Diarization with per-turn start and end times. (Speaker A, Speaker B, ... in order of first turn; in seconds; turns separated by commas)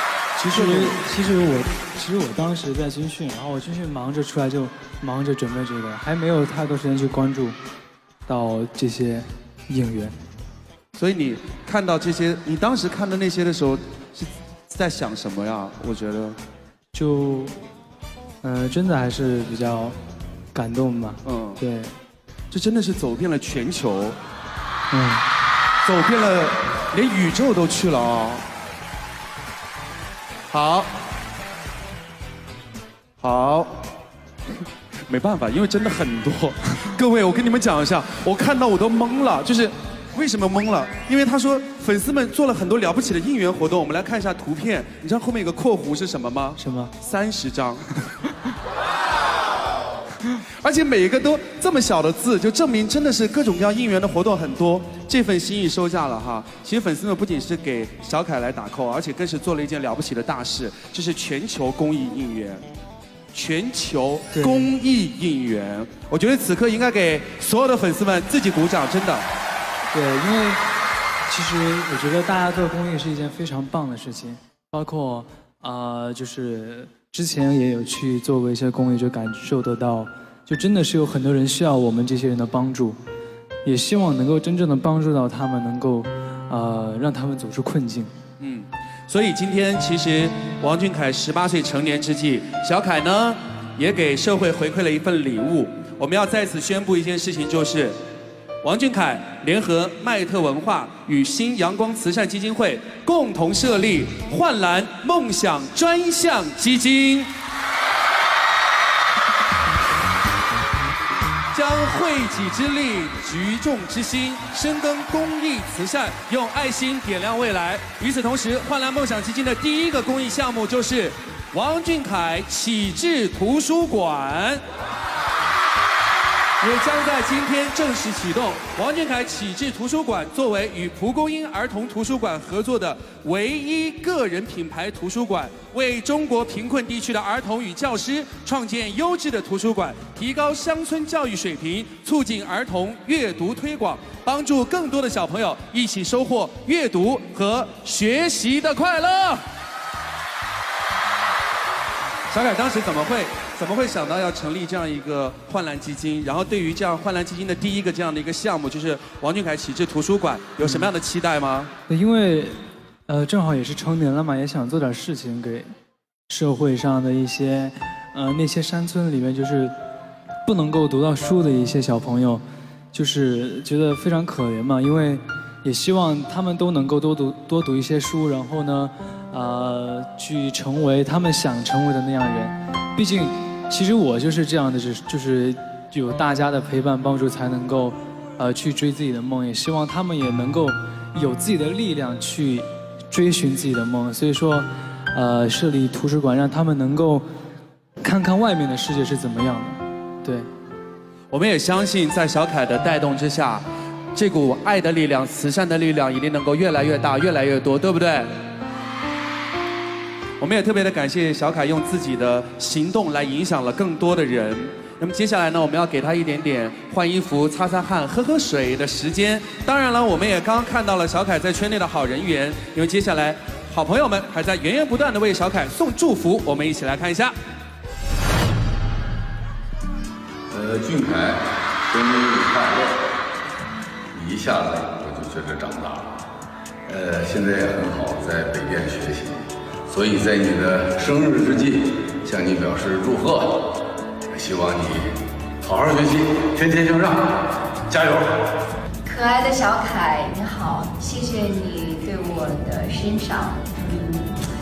Speaker A: 0.4-7.5, Speaker B: 0.5-1.0, Speaker A: 8.3-10.2, Speaker B: 10.9-16.4, Speaker A: 16.9-17.5, Speaker A: 18.4-20.0, Speaker A: 20.5-21.9, Speaker B: 21.2-21.6, Speaker B: 22.5-24.2, Speaker A: 24.9-25.2, Speaker B: 25.8-28.4, Speaker B: 30.5-30.9, Speaker B: 33.2-33.8, Speaker B: 35.1-47.9, Speaker A: 46.6-46.9, Speaker B: 50.6-62.6, Speaker B: 63.3-69.2, Speaker A: 64.3-64.7, Speaker A: 69.9-70.6, Speaker A: 71.3-83.0, Speaker A: 83.6-88.1, Speaker B: 88.4-98.0, Speaker B: 98.6-107.3, Speaker B: 111.5-124.6, Speaker B: 126.6-149.4, Speaker B: 152.3-161.7, Speaker A: 160.6-160.9, Speaker A: 161.9-165.7, Speaker A: 166.3-169.7, Speaker A: 170.4-197.3, Speaker A: 198.0-200.5, Speaker B: 201.3-208.3, Speaker B: 210.4-227.3, Speaker C: 230.5-233.1, Speaker C: 234.1-236.1, Speaker C: 236.9-247.3, Speaker C: 247.9-248.4, Speaker D: 249.1-254.3